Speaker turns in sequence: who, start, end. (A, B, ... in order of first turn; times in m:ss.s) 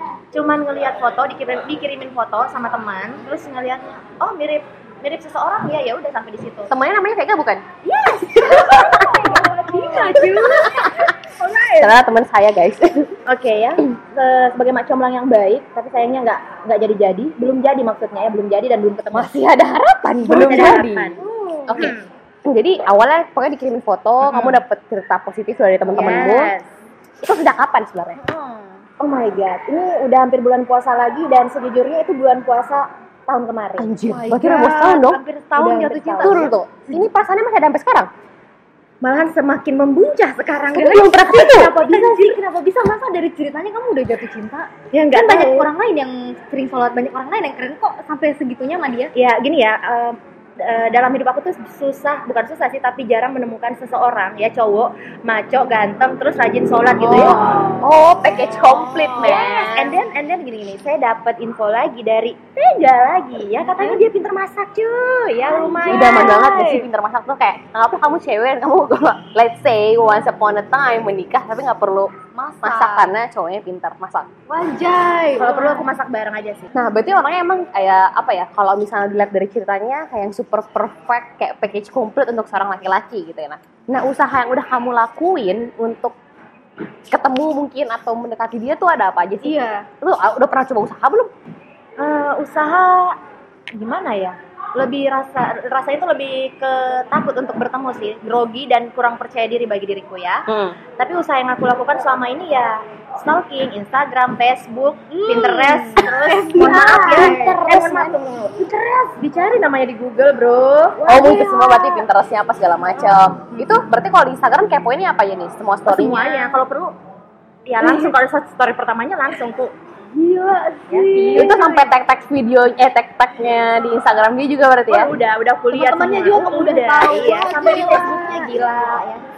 0:00.3-0:06.7 A
0:06.7-0:07.6 B
0:07.8-0:10.6 A
0:08.5-0:08.9 B
0:08.6-0:12.0 C
0:10.1-0:11.1 B
0:11.8-0:13.1 B
0:13.3-0:19.4 A
0:19.1-0:21.2 B
0:20.2-0:21.2 A
0:21.2-0:21.9 C
0:21.7-0:26.5 B
0:21.8-0:22.0 A
0:24.2-0:24.6 A
0:25.9-0:26.6 A
0:26.0-0:26.4 C
0:27.2-0:28.2 B
0:28.2-0:28.8 C
0:29.0-0:33.9 A
0:33.8-0:35.2 B
0:34.1-0:37.1 C
0:35.6-0:36.5 A
0:36.2-0:38.1 B
0:39.0-0:42.4 A
0:40.7-0:49.1 C
0:40.8-0:41.8 B
0:44.9-0:45.7 A
0:49.1-0:57.6 A
0:57.0-0:57.8 C
0:57.2-1:00.0 B
0:58.8-0:59.7 C
0:59.2-1:06.4 A
1:03.7-1:04.0 C
1:05.4-1:06.9 C
1:05.9-1:14.3 B
1:12.3-1:13.1 C
1:14.5-1:15.9 C
1:15.4-1:16.7 A
1:16.7-1:26.2 B
1:27.1-1:31.3 B
1:29.4-1:29.9 C
1:32.0-1:33.2 A
1:33.7-1:40.4 A
1:40.5-1:40.8 B
1:41.0-1:48.6 A
1:45.1-1:47.7 C
1:46.5-1:48.2 B
1:48.6-1:49.2 C
1:49.2-1:51.4 A
1:51.0-1:52.1 C
1:51.1-1:56.2 B
1:55.9-1:56.9 A
1:56.2-1:56.6 C
1:57.7-1:59.7 A
1:57.8-1:58.1 C
2:00.1-2:01.9 C
2:00.9-2:01.6 A
2:01.3-2:05.1 B
2:04.9-2:09.2 A
2:05.7-2:08.7 C